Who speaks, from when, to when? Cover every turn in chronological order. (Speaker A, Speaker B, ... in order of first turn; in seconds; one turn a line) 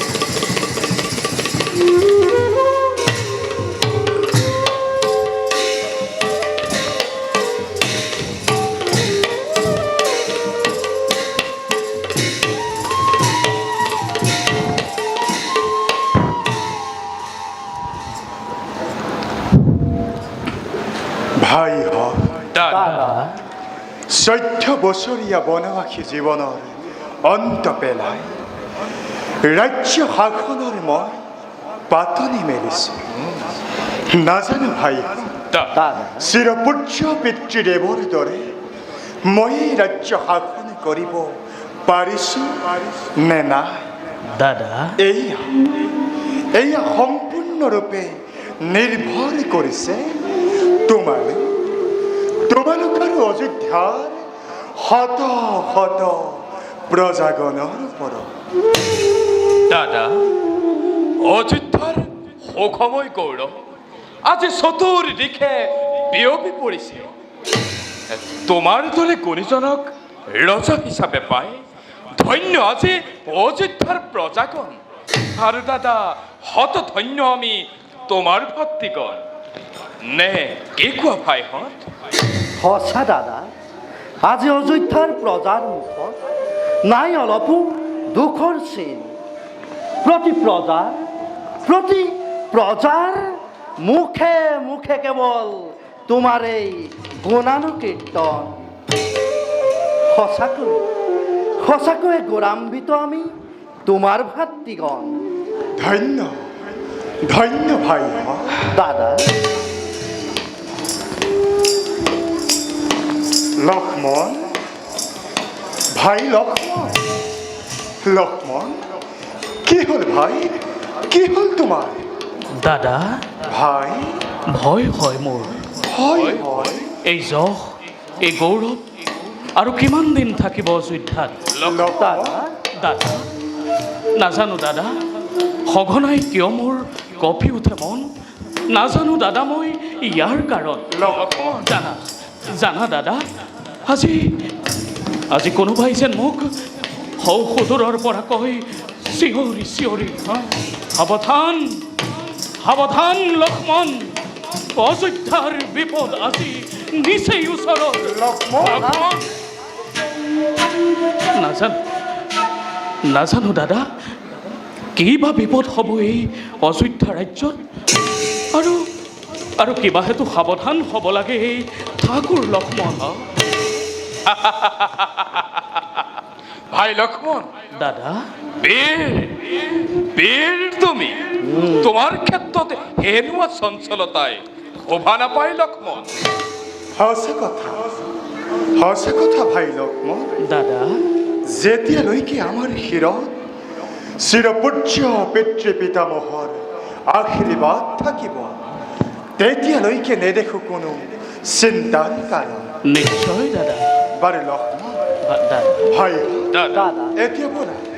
Speaker A: 21.4-22.5
Speaker B: 22.7-23.3
Speaker C: 22.8-23.4
Speaker A: 24.1-28.3
Speaker A: 29.4-31.2
Speaker A: 31.9-33.1
Speaker A: 34.1-35.4
Speaker B: 35.7-36.3
Speaker A: 36.2-38.6
Speaker A: 39.2-43.9
Speaker C: 44.3-45.0
Speaker A: 45.0-45.7
Speaker A: 46.5-50.2
Speaker A: 50.8-51.6
Speaker A: 52.5-58.3
Speaker D: 59.7-60.2
Speaker D: 61.2-63.6
Speaker D: 64.2-67.1
Speaker D: 68.4-71.6
Speaker D: 72.2-74.8
Speaker D: 75.4-79.2
Speaker D: 80.0-81.9
Speaker B: 82.6-83.5
Speaker B: 84.2-86.2
Speaker B: 86.8-89.2
Speaker B: 90.0-91.1
Speaker B: 91.6-98.6
Speaker B: 100.1-100.9
Speaker B: 101.6-105.2
Speaker A: 105.8-106.5
Speaker A: 107.2-108.7
Speaker B: 108.7-109.3
Speaker A: 113.6-114.6
Speaker A: 115.9-117.0
Speaker A: 118.0-118.9
Speaker A: 119.6-122.0
Speaker C: 122.5-123.3
Speaker A: 123.4-124.4
Speaker C: 124.4-125.7
Speaker A: 125.8-126.9
Speaker C: 126.3-131.8
Speaker A: 131.6-132.4
Speaker B: 131.9-132.6
Speaker C: 132.7-133.3
Speaker C: 134.1-135.0
Speaker C: 135.6-138.1
Speaker C: 138.7-143.2
Speaker A: 140.9-141.7
Speaker C: 143.8-144.5
Speaker C: 145.3-146.6
Speaker C: 147.2-152.0
Speaker C: 152.6-154.2
Speaker C: 154.7-159.3
Speaker A: 158.0-159.1
Speaker C: 161.2-161.8
Speaker C: 163.1-163.9
Speaker C: 164.9-167.6
Speaker C: 168.5-168.9
Speaker C: 169.6-173.3
Speaker C: 174.3-175.1
Speaker D: 176.7-177.5
Speaker C: 177.2-180.8
Speaker D: 178.6-179.3
Speaker D: 180.1-181.2
Speaker B: 181.4-181.9
Speaker D: 181.8-186.1
Speaker C: 183.2-183.6
Speaker A: 186.9-187.9
Speaker A: 188.7-190.4
Speaker C: 190.4-191.1
Speaker A: 191.4-193.4
Speaker A: 194.2-198.6
Speaker A: 199.4-202.7
Speaker C: 202.8-203.9
Speaker A: 204.1-205.0
Speaker C: 205.2-206.0
Speaker A: 205.9-206.6
Speaker B: 206.7-207.2
Speaker A: 207.2-207.8